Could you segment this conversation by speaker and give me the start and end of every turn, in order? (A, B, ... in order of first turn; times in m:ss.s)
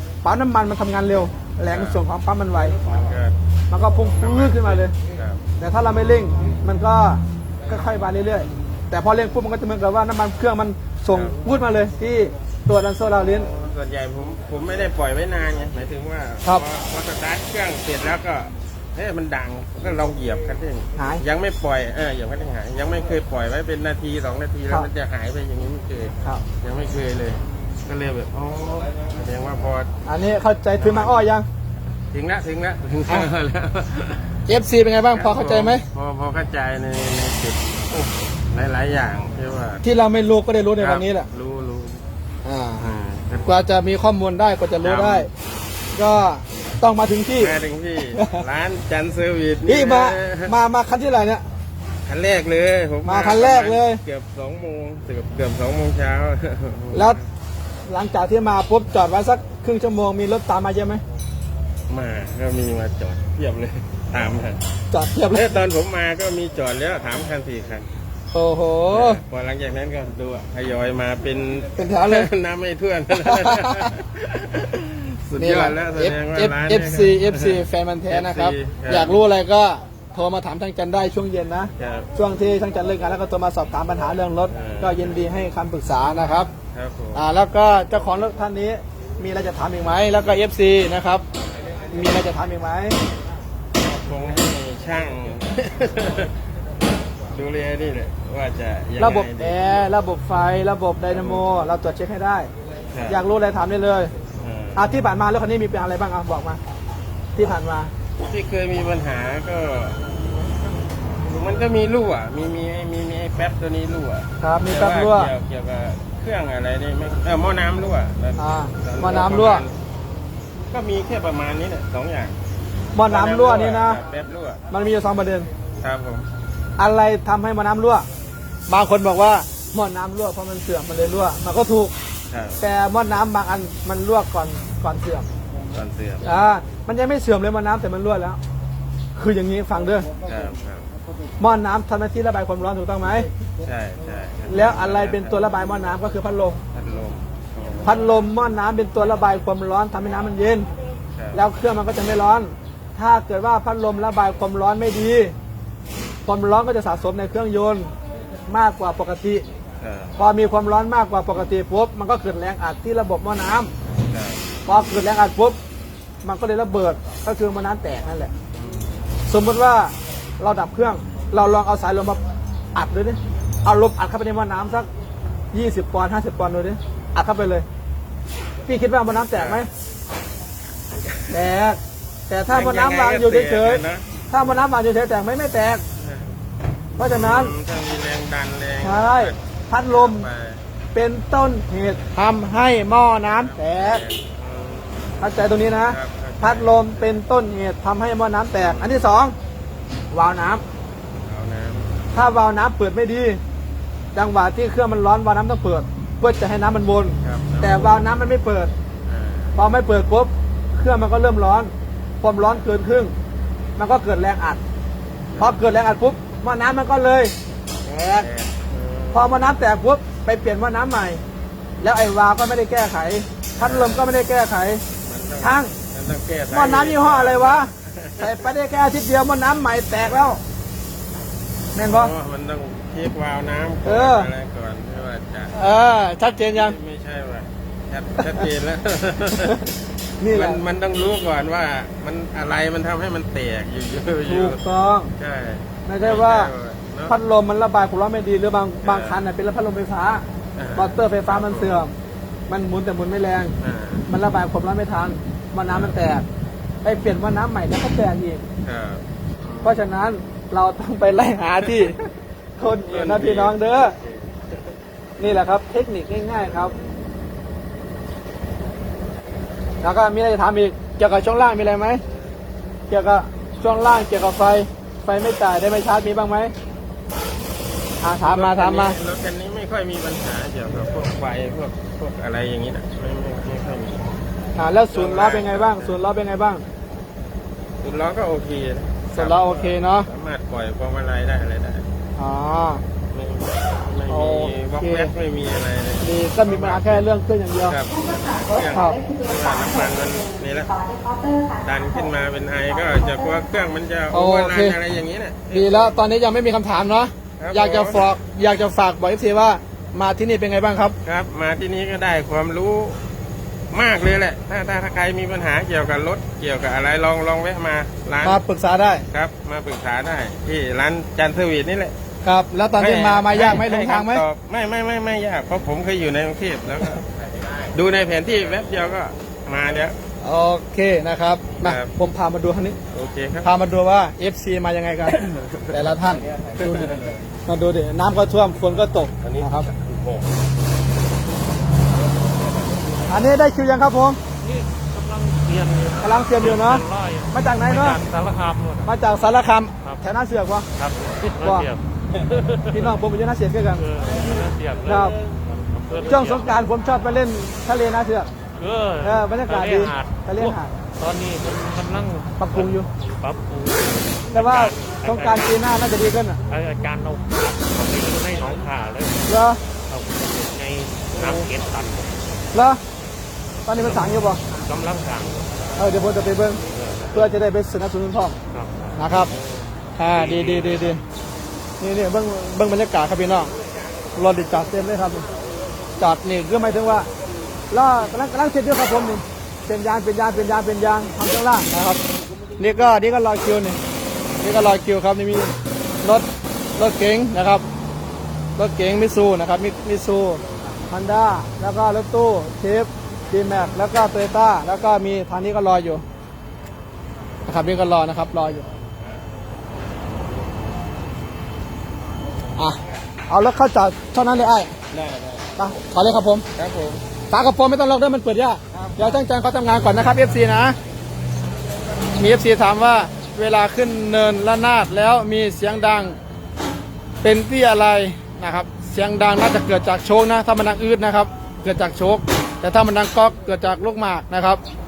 0:00.2-0:02.8 A
0:01.7-0:02.0 B
0:02.7-0:05.4 B
0:03.7-0:04.9 A
0:05.6-0:13.5 A
0:13.2-0:29.9 B
0:21.0-0:21.2 A
0:30.0-0:31.4 A
0:30.8-0:31.2 B
0:32.1-0:34.4 B
0:34.5-0:35.8 A
0:35.1-0:39.8 B
0:39.8-0:41.3 A
0:40.8-0:42.0 B
0:42.4-0:42.8 A
0:42.8-0:43.5 B
0:43.4-0:45.3 A
0:44.8-0:45.3 B
0:45.9-0:47.6 A
0:47.4-0:50.5 B
0:48.2-0:48.4 A
0:49.7-0:51.4 A
0:52.0-0:57.2 B
0:53.0-0:54.0 A
0:56.9-0:57.2 A
0:57.9-1:01.0 A
1:01.9-1:04.7 B
1:04.9-1:05.5 A
1:05.3-1:07.9 B
1:08.3-1:09.2 A
1:08.9-1:19.2 B
1:11.8-1:12.3 A
1:13.1-1:13.9 A
1:15.4-1:26.5 A
1:21.8-1:22.1 B
1:24.5-1:25.2 B
1:26.7-1:27.3 B
1:27.2-1:31.2 A
1:31.9-1:33.0 A
1:33.8-1:36.4 B
1:37.3-1:39.8 B
1:39.0-1:42.5 A
1:41.1-1:41.5 B
1:42.9-1:43.2 B
1:43.1-1:44.1 A
1:44.4-1:44.8 B
1:44.8-1:46.6 A
1:47.4-1:47.9 A
1:48.2-1:50.0 B
1:51.2-1:59.8 B
1:54.4-1:55.3 A
1:58.4-1:59.7 A
2:00.7-2:02.4 B
2:03.0-2:04.0 A
2:03.0-2:04.7 B
2:04.7-2:05.5 A
2:05.8-2:06.3 B
2:06.8-2:08.1 A
2:08.7-2:11.9 A
2:12.3-2:12.6 B
2:12.6-2:15.3 A
2:15.7-2:16.2 B
2:16.2-2:18.4 A
2:19.2-2:20.1 A
2:20.2-2:20.9 B
2:21.4-2:23.3 A
2:23.6-2:25.4 B
2:24.5-2:26.6 A
2:26.7-2:28.0 B
2:27.8-2:30.7 A
2:31.1-2:31.4 B
2:31.3-2:35.4 A
2:36.3-2:37.9 A
2:38.5-2:39.4 A
2:39.8-2:40.2 B
2:40.2-2:43.7 A
2:44.0-2:44.4 B
2:44.7-2:45.6 A
2:46.2-2:48.3 A
2:48.6-2:48.9 B
2:49.3-2:52.2 A
2:52.8-2:54.9 A
2:55.5-2:57.7 A
2:58.7-2:59.7 A
2:59.3-2:59.6 B
3:01.3-3:05.8 A
3:02.5-3:04.1 B
3:06.0-3:06.3 B
3:07.0-3:07.6 A
3:07.0-3:10.6 B
3:08.8-3:10.3 A
3:10.9-3:14.0 A
3:13.4-3:17.2 B
3:15.2-3:19.4 A
3:18.6-3:19.1 B
3:20.1-3:20.6 A
3:21.2-3:21.9 B
3:22.1-3:23.4 A
3:24.2-3:28.7 A
3:27.2-3:28.1 B
3:29.1-3:29.6 B
3:29.6-3:33.1 A
3:33.8-3:34.6 A
3:35.3-3:35.6 B
3:35.4-3:38.3 A
3:37.9-3:39.5 B
3:39.1-3:41.2 A
3:41.8-3:44.8 A
3:43.6-3:44.1 B
3:45.0-3:48.5 B
3:45.4-3:45.7 A
3:46.5-3:50.4 A
3:51.8-3:52.1 A
3:51.8-3:55.6 B
3:53.8-3:54.3 A
3:55.5-3:56.8 A
3:56.5-3:59.6 B
4:00.2-4:00.6 A
4:00.3-4:04.6 B
4:04.2-4:05.1 A
4:05.2-4:07.2 B
4:05.9-4:06.5 A
4:07.1-4:10.2 A
4:08.8-4:09.2 B
4:10.6-4:11.9 B
4:10.8-4:11.9 A
4:12.5-4:13.5 A
4:13.6-4:14.1 B
4:14.1-4:16.2 A
4:15.6-4:16.0 B
4:16.8-4:18.4 A
4:18.6-4:19.8 B
4:19.6-4:22.0 A
4:22.6-4:24.0 A
4:22.8-4:24.7 B
4:25.2-4:26.7 A
4:26.4-4:27.1 B
4:29.8-4:32.0 A
4:32.9-4:36.5 A
4:38.0-4:39.0 A
4:38.2-4:44.1 B
4:44.6-4:46.6 A
4:44.9-4:46.0 B
4:47.8-4:51.9 B
4:49.1-4:50.1 A
4:52.2-4:52.8 A
4:53.1-4:57.1 B
4:54.1-4:55.1 A
4:56.0-4:57.8 A
4:57.6-5:00.7 B
4:57.9-5:02.1 C
4:58.7-4:59.0 A
5:01.6-5:06.0 B
5:02.8-5:03.5 C
5:04.1-5:04.8 A
5:05.5-5:11.0 A
5:07.4-5:08.1 B
5:11.0-5:13.0 B
5:13.7-5:18.4 B
5:18.2-5:19.1 A
5:19.1-5:22.0 B
5:22.2-5:24.2 A
5:22.8-5:30.0 B
5:30.2-5:32.8 A
5:31.6-5:31.9 B
5:32.9-5:33.5 B
5:33.4-5:36.9 A
5:35.1-5:37.3 B
5:37.5-5:39.7 A
5:39.2-5:40.4 B
5:42.2-5:43.0 B
5:43.1-5:44.2 A
5:44.4-5:48.9 D
5:46.0-5:48.0 A
5:48.8-5:50.7 A
5:50.8-5:53.0 D
5:51.4-5:51.7 A
5:52.7-5:53.8 A
5:53.8-5:56.6 D
5:54.8-5:55.2 A
5:56.0-5:58.3 A
5:58.6-6:05.6 D
5:59.0-6:00.7 A
6:02.4-6:02.9 A
6:04.3-6:06.4 A
6:06.5-6:09.3 D
6:09.3-6:09.6 A
6:09.9-6:12.5 D
6:12.5-6:12.8 A
6:13.7-6:14.4 A
6:13.8-6:15.9 D
6:15.8-6:16.6 A
6:16.7-6:17.2 D
6:16.8-6:17.2 B
6:17.1-6:18.4 A
6:18.5-6:19.0 D
6:19.0-6:19.3 A
6:19.3-6:21.0 B
6:20.0-6:21.0 A
6:21.8-6:23.5 A
6:24.2-6:25.3 A
6:26.0-6:27.1 A
6:27.7-6:32.0 A
6:32.6-6:33.8 A
6:34.4-6:36.3 A
6:36.8-6:37.6 A
6:38.6-6:46.0 A
6:47.5-6:48.7 A
6:53.3-6:54.7 A
6:54.9-6:55.5 B
6:55.6-6:56.4 A
6:56.6-6:57.0 B
6:57.3-7:00.8 A
7:02.2-7:06.2 A
7:07.2-7:14.6 A